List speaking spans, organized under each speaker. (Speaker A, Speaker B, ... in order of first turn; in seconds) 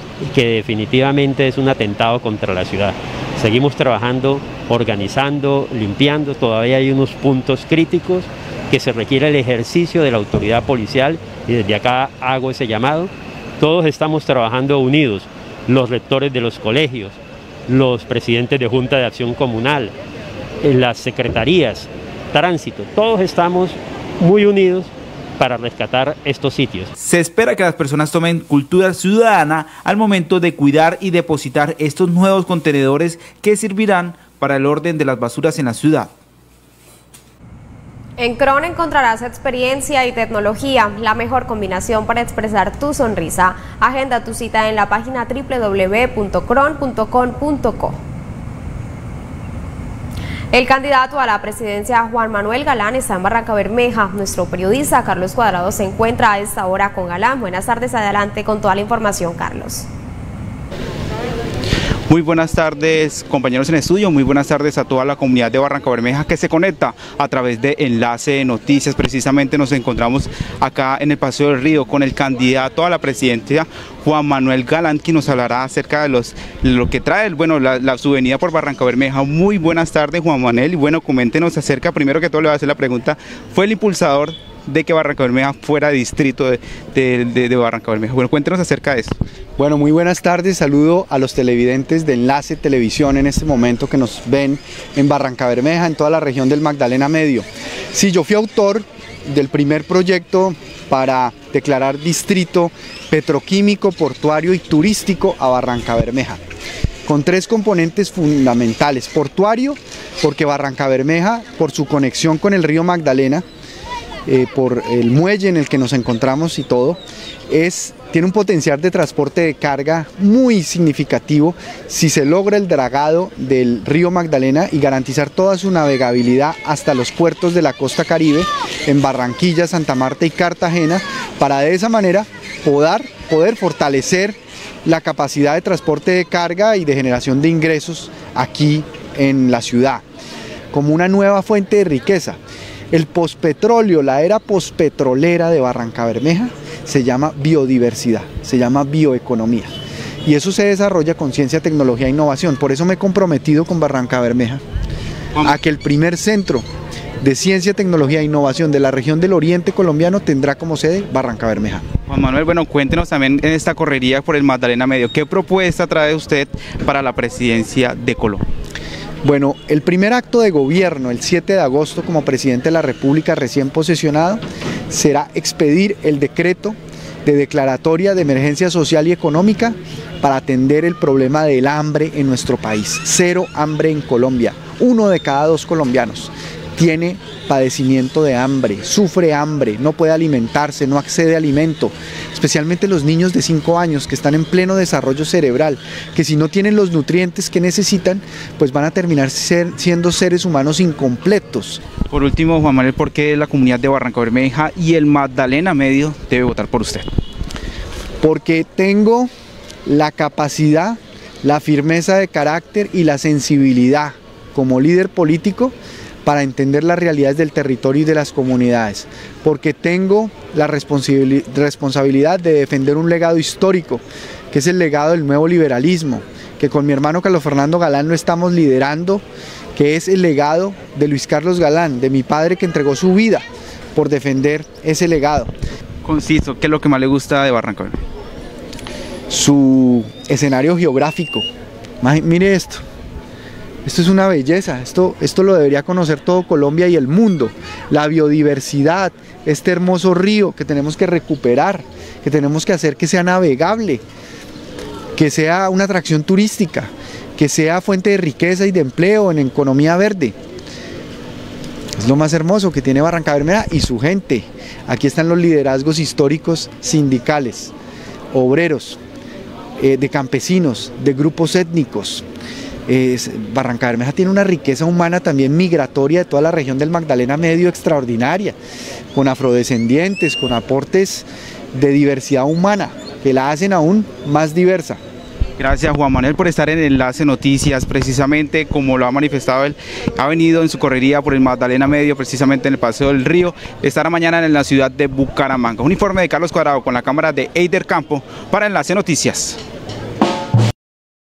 Speaker A: 0.2-19.9, 20.6-26.9
Speaker B: 27.0-36.1, 62.1-89.2, 162.1-168.5, 202.1-207.1, 236.0-238.0, 285.6-299.6
Speaker C: 38.2-48.0, 50.5-59.9
Speaker D: 89.6-106.4, 107.1-113.5, 114.2-140.0, 140.7-142.4, 142.9-149.7, 150.2-154.6, 155.4-156.7, 157.2-161.9, 169.2-201.8, 208.2-209.3, 209.8-215.7, 216.2-229.2, 229.8-235.5, 239.3-241.5, 242.0-242.8, 243.8-254.0, 255.2-260.4, 262.0-267.7, 268.3-269.0, 269.8-272.2, 272.9-278.6, 279.1-285.0